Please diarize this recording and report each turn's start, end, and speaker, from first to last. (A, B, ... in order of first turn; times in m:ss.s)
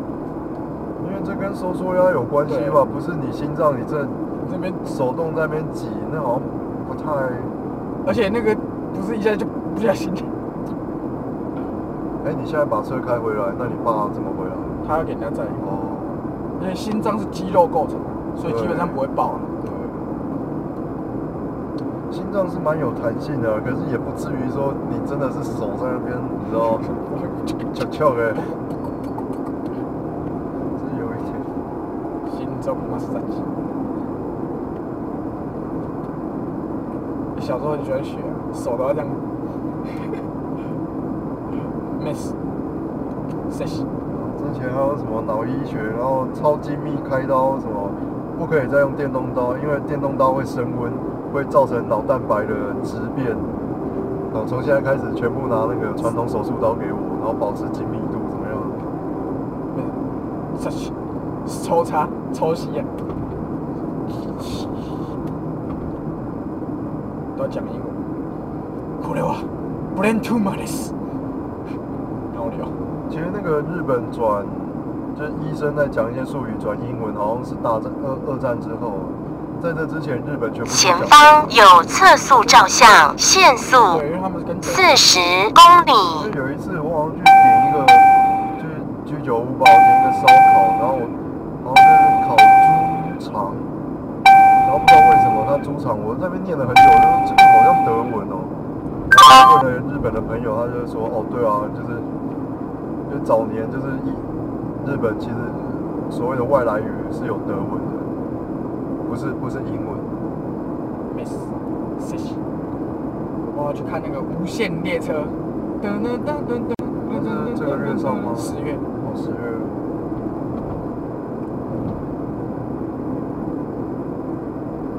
0:01.0-0:04.2 A
0:02.5-0:02.8 B
0:04.4-0:04.8 B
0:04.8-0:07.5 A
0:08.0-0:10.3 B
0:12.2-0:14.8 A
0:14.8-0:15.6 B
0:15.6-0:16.2 A
0:16.6-0:20.0 B
0:18.4-0:19.0 A
0:22.1-0:26.9 A
0:26.8-0:27.5 B
0:27.7-0:28.5 A
0:30.7-0:31.5 A
0:32.3-0:33.4 B
0:37.4-0:39.2 B
0:42.0-0:42.4 B
0:43.5-0:43.9 B
0:44.1-0:53.5 A
0:54.3-0:58.9 A
0:59.7-1:00.0 B
1:00.6-1:00.9 B
1:01.4-1:02.9 B
1:04.4-1:04.9 B
1:07.4-1:08.1 B
1:09.0-1:10.9 B
1:12.3-1:12.7 B
1:13.1-1:21.6 A
1:20.7-1:24.0 C
1:23.9-1:25.2 B
1:24.7-1:26.2 C
1:26.1-1:33.7 A
1:34.6-1:38.6 A
1:39.1-1:42.1 A
1:43.1-1:44.3 A
1:44.8-1:48.1 A
1:49.0-1:50.1 A
1:51.1-1:52.4 B
1:53.5-1:58.8 B
1:57.0-1:59.9 A